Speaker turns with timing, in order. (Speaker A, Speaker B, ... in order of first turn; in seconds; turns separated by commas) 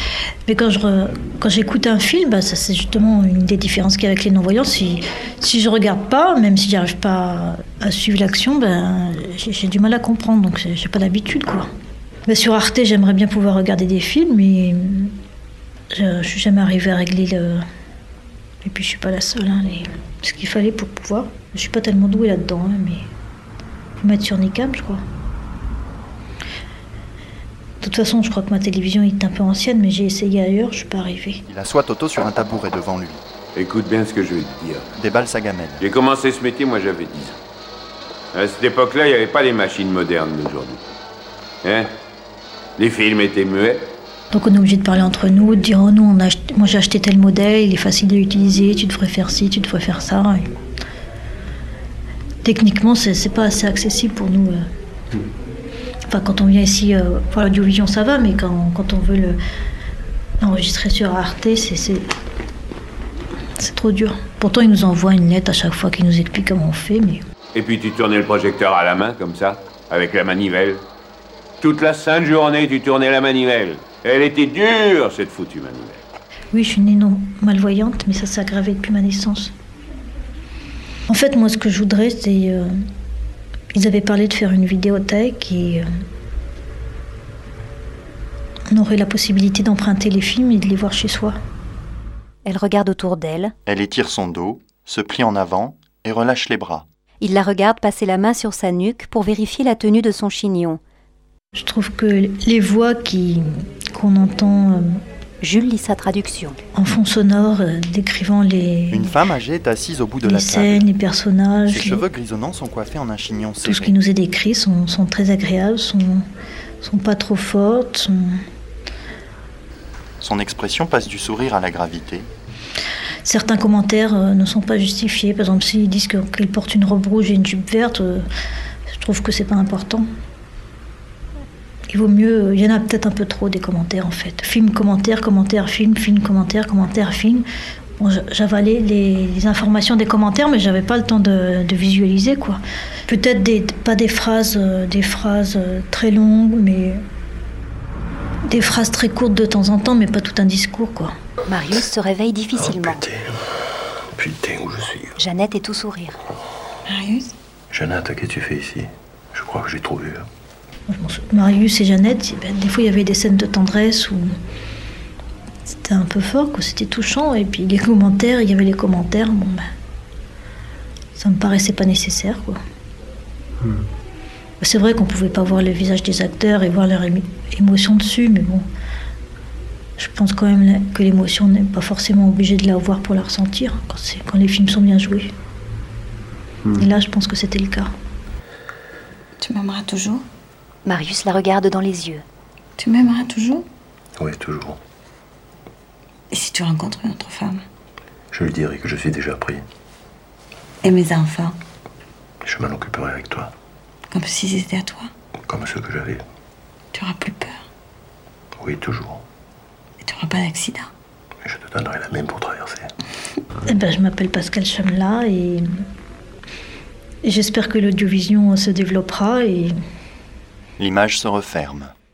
Speaker A: 0.5-11.7, Speaker A: 12.3-15.1, Speaker A: 15.9-17.6, Speaker A: 18.6-23.1, Speaker A: 24.0-25.0, Speaker A: 27.8-31.4, Speaker B: 31.5-33.2, Speaker C: 33.5-34.9, Speaker B: 35.0-35.9, Speaker C: 35.8-37.4, Speaker C: 38.3-40.8, Speaker C: 41.6-41.9, Speaker C: 42.8-43.9, Speaker A: 44.3-50.5, Speaker A: 52.4-54.6, Speaker A: 56.1-59.4, Speaker A: 60.4-62.1, Speaker A: 63.6-67.2, Speaker C: 67.5-70.8, Speaker C: 71.6-76.0, Speaker A: 76.5-79.5, Speaker A: 81.1-82.7, Speaker A: 83.7-85.8, Speaker A: 88.7-91.4, Speaker D: 92.5-93.5, Speaker B: 93.7-96.9, Speaker D: 97.2-100.8, Speaker A: 101.5-105.0, Speaker D: 105.4-106.6, Speaker A: 106.8-109.2, Speaker B: 108.9-110.9, Speaker A: 110.2-112.0, Speaker B: 111.7-114.0, Speaker A: 113.6-116.3, Speaker A: 116.8-118.4, Speaker B: 120.2-122.3, Speaker A: 123.2-128.3, Speaker A: 128.9-130.1, Speaker A: 131.9-137.5, Speaker A: 138.0-147.0, Speaker A: 148.5-151.1, Speaker D: 151.5-153.0, Speaker E: 152.6-153.4, Speaker E: 154.2-155.2, Speaker D: 155.2-156.2, Speaker F: 156.9-157.3, Speaker E: 157.7-160.3, Speaker A: 160.9-164.3, Speaker A: 165.7-169.7, Speaker A: 171.2-172.6, Speaker A: 174.6-178.7, Speaker A: 180.0-185.3, Speaker A: 186.7-187.9, Speaker F: 189.4-190.2, Speaker D: 190.8-192.2, Speaker F: 192.8-193.7, Speaker E: 194.2-194.8, Speaker F: 196.3-197.6, Speaker E: 198.3-199.6, Speaker F: 200.8-201.6, Speaker E: 202.4-203.5, Speaker F: 204.1-205.1, Speaker E: 205.5-206.2, Speaker F: 206.9-207.6, Speaker E: 208.6-209.3, Speaker F: 210.0-210.9, Speaker E: 211.4-212.9, Speaker A: 213.7-215.7, Speaker A: 217.2-219.7, Speaker B: 220.8-221.9